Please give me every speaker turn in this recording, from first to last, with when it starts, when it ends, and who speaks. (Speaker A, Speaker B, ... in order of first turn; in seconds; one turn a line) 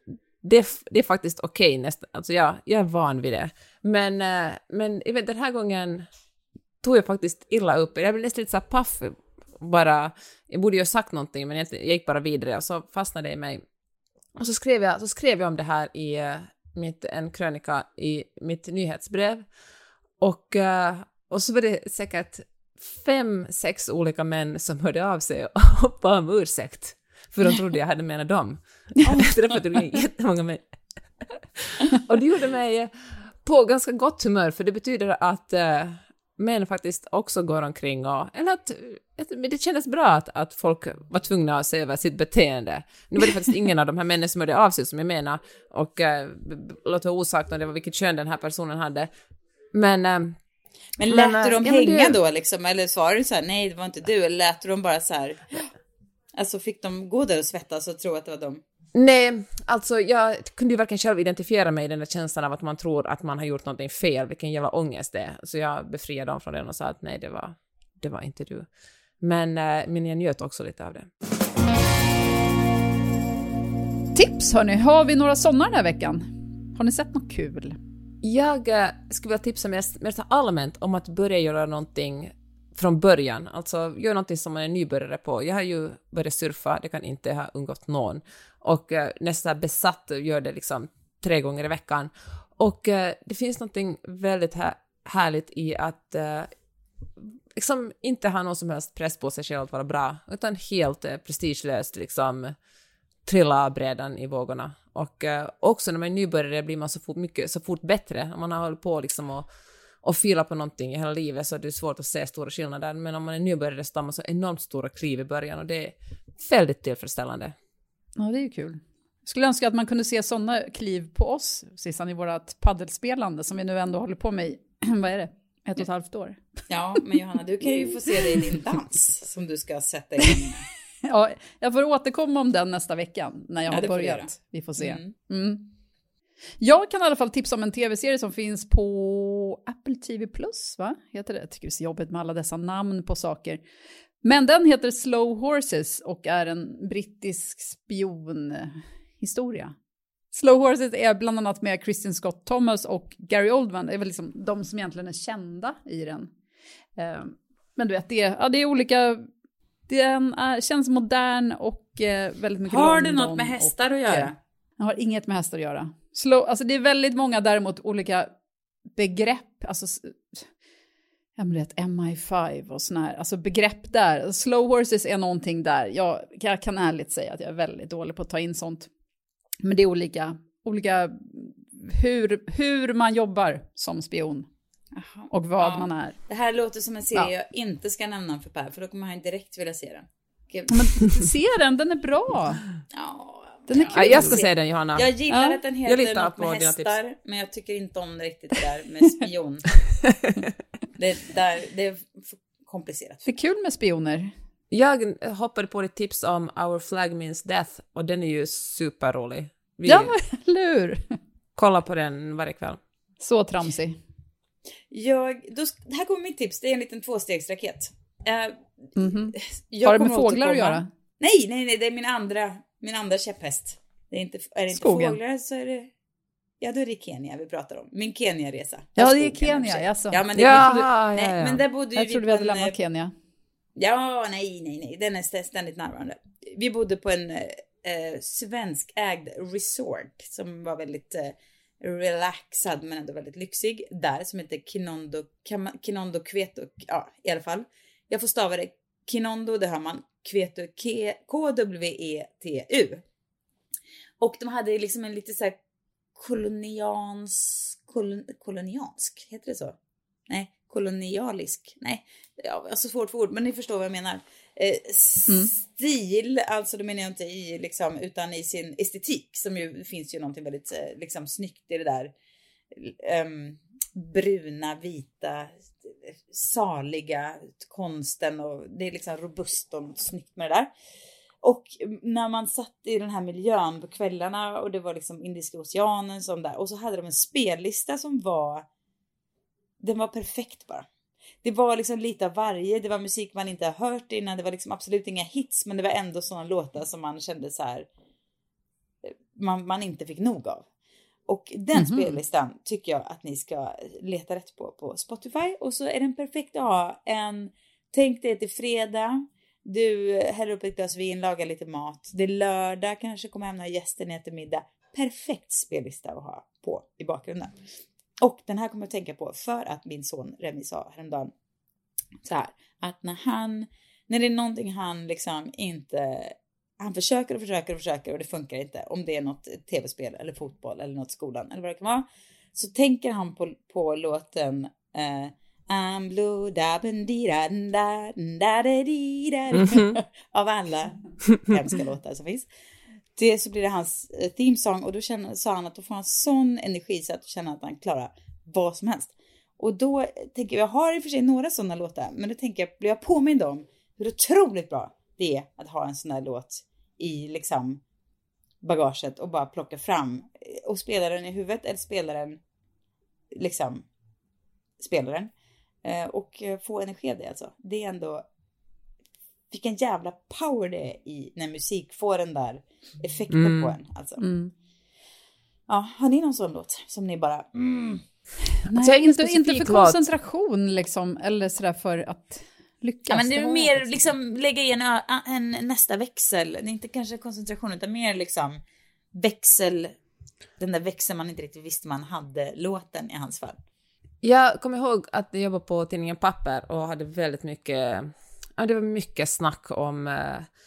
Speaker A: 0.4-6.1
Speaker A: 6.8-13.6
Speaker A: 14.4-19.4
Speaker A: 20.2-30.6
Speaker A: 31.6-32.9
Speaker A: 33.4-49.1
Speaker A: 49.7-50.4
Speaker B: 51.0-55.7
Speaker A: 51.1-52.2
Speaker B: 56.4-58.6
Speaker A: 58.9-68.7
Speaker A: 69.2-71.1
Speaker C: 74.1-77.8
Speaker A: 78.2-96.5
Speaker A: 97.2-102.5
Speaker A: 103.3-109.5
Speaker A: 110.0-117.5
Speaker C: 118.2-126.4
Speaker B: 126.7-130.6
Speaker C: 131.1-135.7
Speaker B: 133.7-135.1
Speaker C: 136.6-143.6
Speaker C: 144.2-149.7
Speaker C: 150.3-156.3
Speaker C: 157.0-159.3
Speaker C: 159.9-168.3
Speaker B: 162.7-164.4
Speaker C: 168.9-170.4
Speaker C: 171.4-178.9
Speaker C: 179.6-184.5
Speaker B: 184.9-191.1
Speaker C: 185.3-186.2
Speaker C: 190.7-192.6
Speaker B: 192.9-199.8
Speaker C: 193.7-194.4
Speaker A: 193.9-195.1
Speaker C: 195.3-195.6
Speaker A: 195.8-196.9
Speaker B: 200.9-203.3
Speaker C: 203.3-204.3
Speaker A: 204.7-210.1
Speaker C: 209.9-211.2
Speaker A: 211.6-212.8
Speaker C: 213.2-214.0
Speaker B: 214.9-225.9
Speaker C: 218.9-220.9
Speaker C: 224.7-225.2
Speaker B: 226.6-232.7
Speaker C: 228.9-230.8
Speaker A: 230.4-231.6
Speaker C: 231.9-233.1
Speaker B: 233.8-253.0
Speaker B: 254.2-255.6
Speaker B: 256.1-259.8
Speaker B: 260.3-272.1
Speaker B: 272.7-280.7
Speaker B: 281.4-288.6
Speaker B: 289.8-290.9
Speaker B: 291.4-297.9
Speaker B: 299.0-300.6
Speaker B: 301.3-317.6
Speaker C: 301.7-302.2
Speaker B: 318.2-321.3
Speaker B: 322.2-342.5
Speaker A: 339.6-340.0
Speaker B: 343.1-357.8
Speaker B: 358.6-362.4
Speaker B: 363.3-363.9
Speaker B: 364.8-365.3
Speaker B: 365.8-368.2
Speaker B: 369.5-374.2
Speaker A: 373.3-373.8
Speaker C: 374.2-374.5
Speaker B: 375.7-378.0
Speaker C: 378.6-384.1
Speaker A: 378.8-380.1
Speaker B: 383.1-388.6
Speaker B: 389.1-389.9
Speaker B: 390.6-393.6
Speaker A: 394.2-400.5